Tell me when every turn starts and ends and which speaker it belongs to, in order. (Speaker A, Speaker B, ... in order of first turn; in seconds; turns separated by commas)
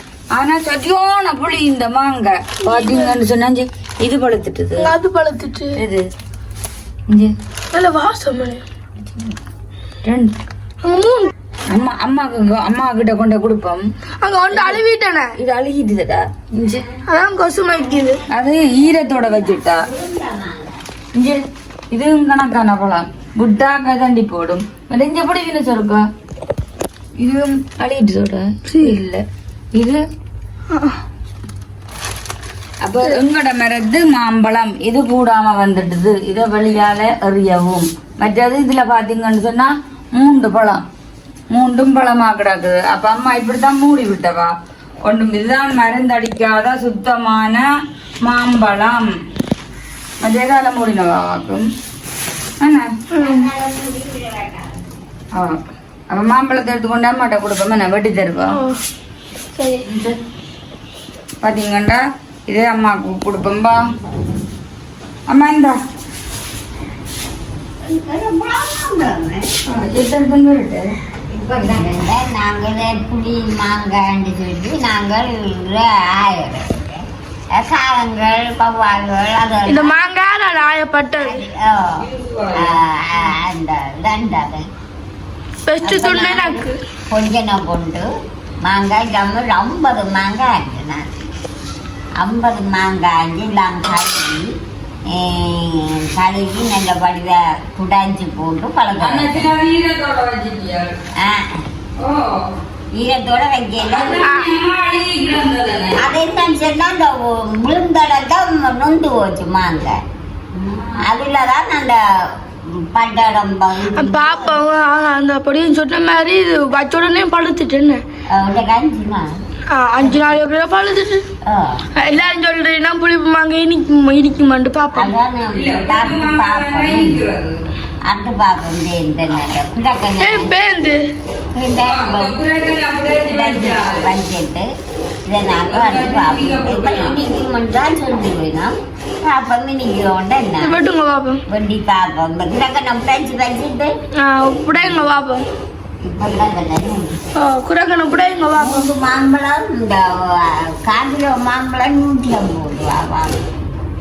Speaker A: 0.3-4.9, Speaker B: 2.6-3.1, Speaker B: 4.8-5.8, Speaker A: 5.8-6.0, Speaker A: 7.1-7.3, Speaker B: 7.7-8.6, Speaker A: 10.0-10.3, Speaker B: 10.8-11.3, Speaker A: 11.7-13.8, Speaker B: 14.2-15.3, Speaker A: 14.5-14.8, Speaker A: 15.4-16.8, Speaker C: 16.6-17.0, Speaker B: 17.1-18.2, Speaker C: 17.8-20.8, Speaker A: 18.3-19.9, Speaker A: 21.2-26.1, Speaker A: 27.2-29.2, Speaker B: 28.7-28.9, Speaker A: 29.7-30.0, Speaker B: 30.7-31.0, Speaker A: 32.8-40.8, Speaker A: 41.5-44.5, Speaker A: 45.0-47.7, Speaker A: 48.2-49.1, Speaker A: 50.2-51.7, Speaker A: 52.6-52.9, Speaker B: 53.1-53.5, Speaker C: 53.1-54.8, Speaker A: 55.3-58.6, Speaker B: 58.5-58.8, Speaker B: 59.5-59.8, Speaker A: 59.8-60.1, Speaker A: 61.4-63.8, Speaker A: 65.3-65.8, Speaker C: 67.8-69.5, Speaker A: 69.7-70.9, Speaker C: 71.3-80.0, Speaker A: 71.5-71.9, Speaker B: 79.7-81.4, Speaker C: 81.2-82.0, Speaker A: 82.0-82.8, Speaker C: 82.5-84.7, Speaker B: 85.7-86.8, Speaker C: 85.8-88.1, Speaker C: 88.6-91.2, Speaker C: 92.2-99.5, Speaker A: 98.9-100.9, Speaker C: 101.2-101.6, Speaker A: 102.0-102.5, Speaker C: 102.9-104.3, Speaker A: 103.8-106.1, Speaker B: 104.2-104.5, Speaker C: 106.0-110.0, Speaker A: 110.5-111.1, Speaker C: 111.0-114.6, Speaker B: 113.9-118.0, Speaker C: 118.3-119.3, Speaker B: 119.7-121.2, Speaker C: 121.4-121.9, Speaker B: 121.9-125.1, Speaker C: 124.9-127.2, Speaker A: 125.5-127.6, Speaker C: 128.0-130.5, Speaker B: 130.2-131.0, Speaker C: 131.5-132.3, Speaker A: 131.8-134.1, Speaker C: 133.2-134.7, Speaker C: 135.2-140.8, Speaker A: 135.7-137.2, Speaker B: 140.6-141.4, Speaker C: 141.5-143.9, Speaker B: 144.2-145.4, Speaker C: 146.0-147.2, Speaker B: 147.3-148.9, Speaker C: 148.5-153.5